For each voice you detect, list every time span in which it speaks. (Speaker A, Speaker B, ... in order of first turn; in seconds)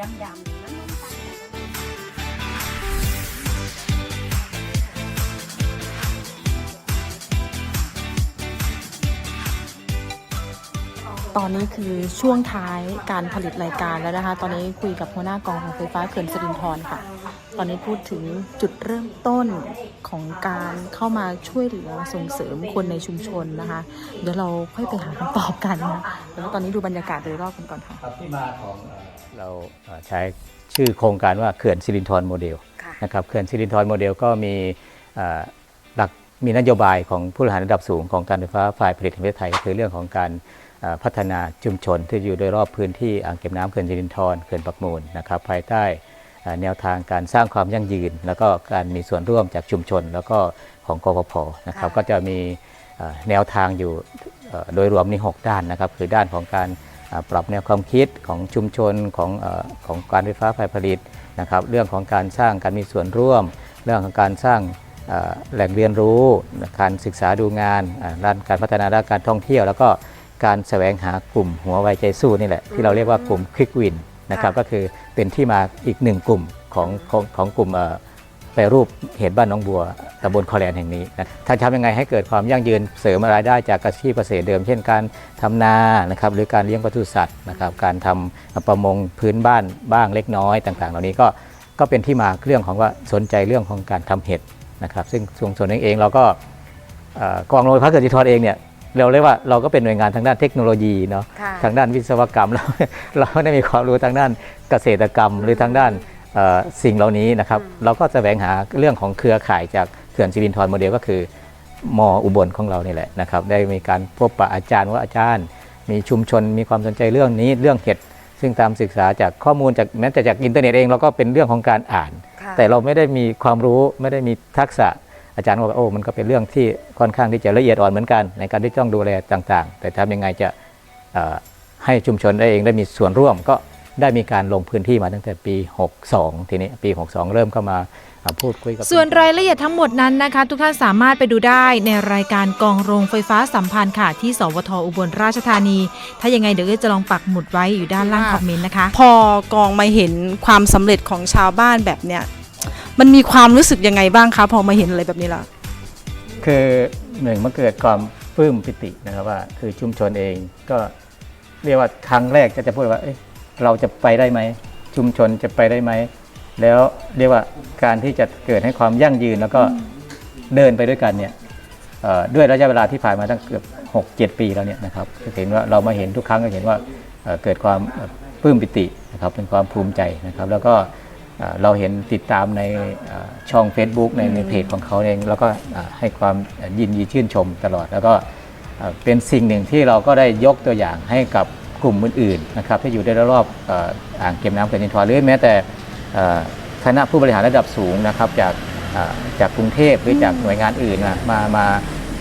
Speaker A: 0.4-1.4, 51.7-52.0, 72.7-73.4, 76.8-77.1, 101.3-101.7, 105.4-106.0, 107.5-107.9, 122.4-122.7
Speaker B: 11.3-28.0, 148.0-155.5, 184.2-184.6, 200.1-200.5
Speaker C: 28.0-78.0, 78.5-96.4, 97.1-111.3, 111.8-130.5, 131.1-139.6, 156.4-160.9, 161.6-169.8, 170.5-171.3, 172.0-188.2, 188.8-201.8
Speaker D: 138.8-148.9